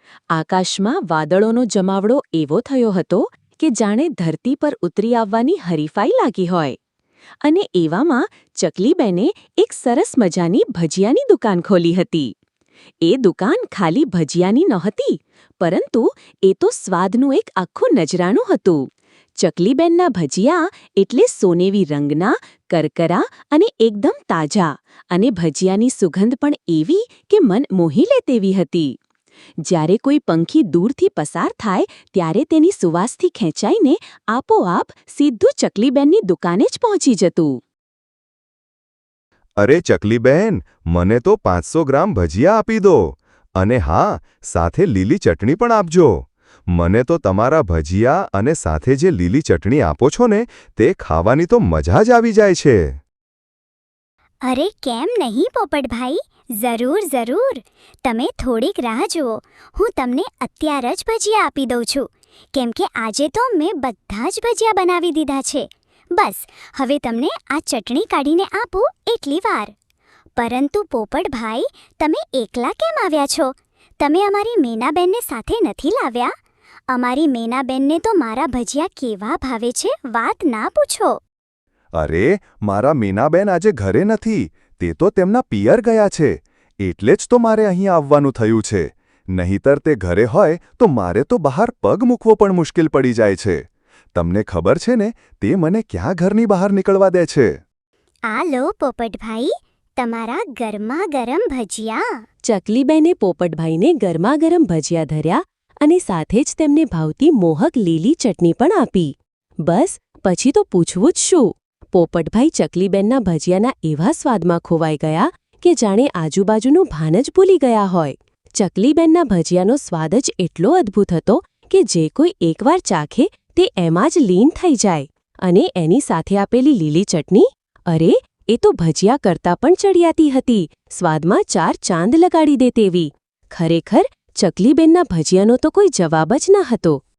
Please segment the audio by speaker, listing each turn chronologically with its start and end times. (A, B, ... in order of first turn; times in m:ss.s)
0:00.3-0:06.8 A
0:07.4-0:12.3 A
0:13.0-0:18.8 A
0:19.4-0:29.0 A
0:29.6-0:37.6 A
0:39.6-0:53.0 B
0:54.4-1:09.7 C
1:10.4-1:16.4 C
1:16.9-1:21.2 C
1:22.0-1:37.6 B
1:38.3-1:42.2 C
1:42.4-1:49.1 A
1:49.6-2:17.0 A